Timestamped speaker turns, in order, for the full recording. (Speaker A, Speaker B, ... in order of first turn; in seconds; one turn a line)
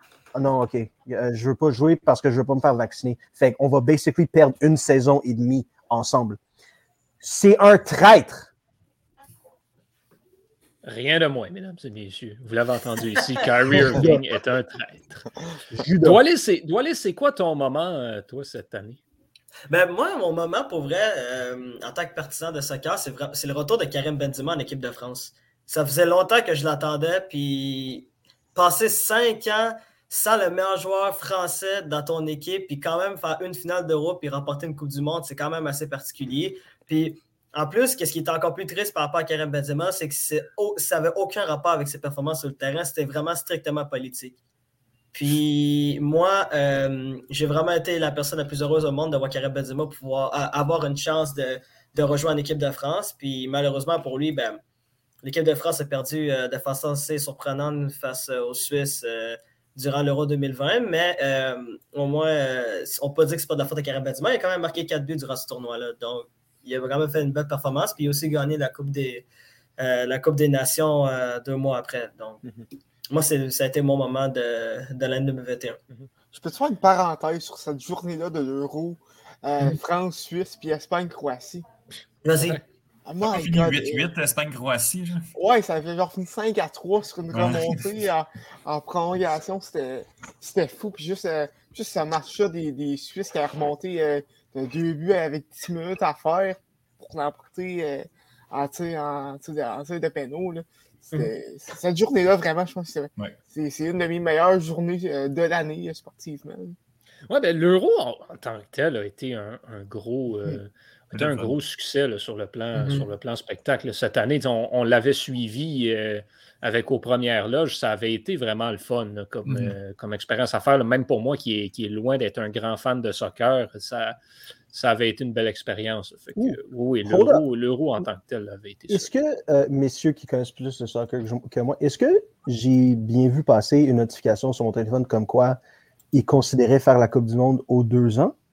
Speaker A: 0.3-6.4
Speaker A: 7.2-8.5
Speaker B: 10.8-15.3
Speaker A: 13.8-14.2
Speaker A: 15.7-16.2
Speaker B: 16.0-19.0
Speaker C: 19.7-44.4
Speaker C: 45.1-54.6
Speaker C: 55.2-69.3
Speaker C: 69.8-72.4
Speaker C: 73.1-75.8
Speaker D: 76.3-81.7
Speaker C: 82.2-82.6
Speaker B: 82.4-82.6
Speaker D: 83.0-84.1
Speaker E: 83.2-85.3
Speaker D: 85.3-106.8
Speaker E: 87.3-87.8
Speaker B: 107.3-124.2
Speaker E: 111.1-111.5
Speaker C: 112.8-113.0
Speaker B: 124.7-129.1
Speaker A: 126.4-127.4
Speaker A: 128.9-135.6
Speaker A: 136.1-138.3